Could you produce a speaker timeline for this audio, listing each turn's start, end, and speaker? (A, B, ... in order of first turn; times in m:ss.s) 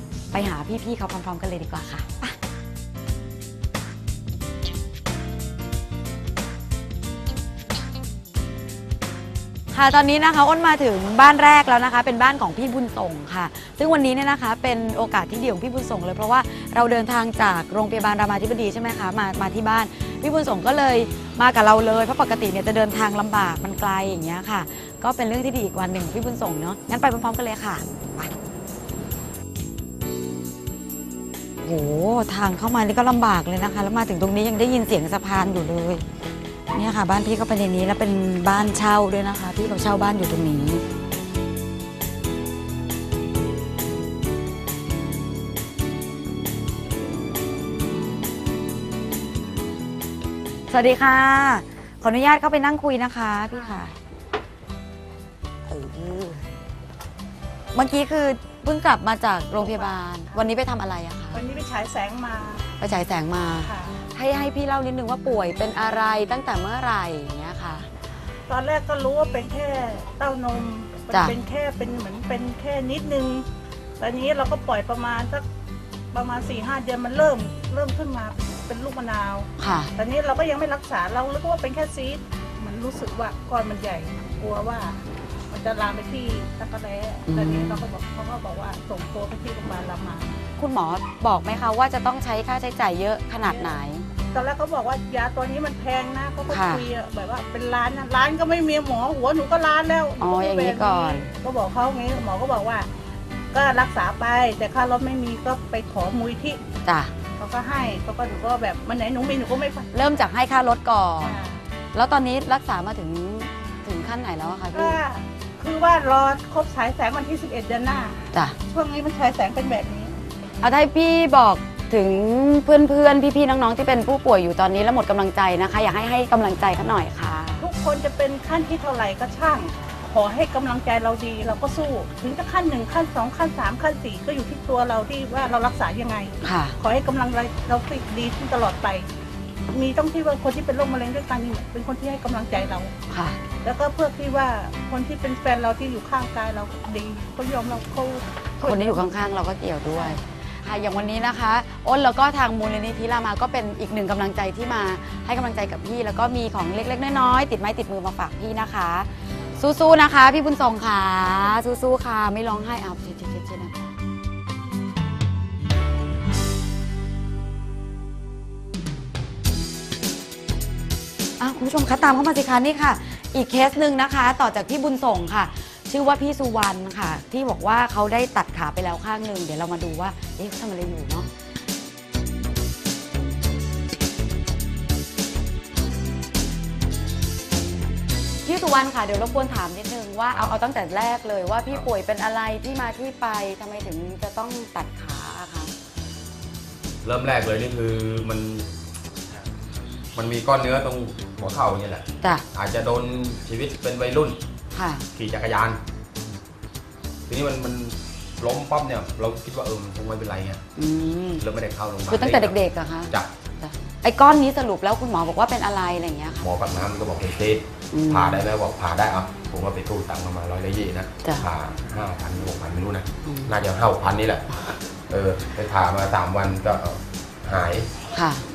0:00.3-0:02.4 A
0:09.7-0:28.3 A
0:31.6-0:36.0 A
0:36.7-0:40.8 A
0:50.7-0:54.0 A
0:55.7-0:56.5 A
0:57.7-1:01.4 A
0:59.6-1:00.4 B
1:01.3-1:02.6 B
1:02.8-1:07.9 A
1:03.6-1:04.0 B
1:08.5-1:13.5 B
1:11.1-1:11.4 A
1:14.0-1:15.5 B
1:16.1-1:30.3 B
1:19.6-1:19.9 A
1:27.3-1:27.9 A
1:30.6-1:34.1 A
1:34.3-1:42.9 B
1:36.5-1:36.8 A
1:40.2-1:41.3 A
1:43.5-1:46.6 B
1:46.8-1:47.1 A
1:47.4-1:49.9 B
1:49.9-1:51.4 A
1:51.2-1:51.6 B
1:51.9-1:55.0 A
1:54.7-2:00.2 B
2:00.6-2:07.7 A
2:07.6-2:19.1 B
2:16.4-2:16.8 A
2:19.7-2:22.9 B
2:23.1-2:23.4 A
2:23.6-2:29.1 B
2:28.6-2:44.0 A
2:51.4-3:01.3 A
3:08.4-3:15.7 A
3:17.0-3:18.7 C
3:20.1-3:24.4 C
3:24.7-3:25.1 A
3:25.1-3:25.8 C
3:27.3-3:30.6 C
3:30.8-3:31.4 A
3:31.4-3:32.6 C
3:32.1-3:36.5 A
3:36.4-3:44.5 C
3:37.9-3:38.4 A
3:43.3-3:43.5 A
3:45.1-3:47.9 C
3:48.1-3:48.4 A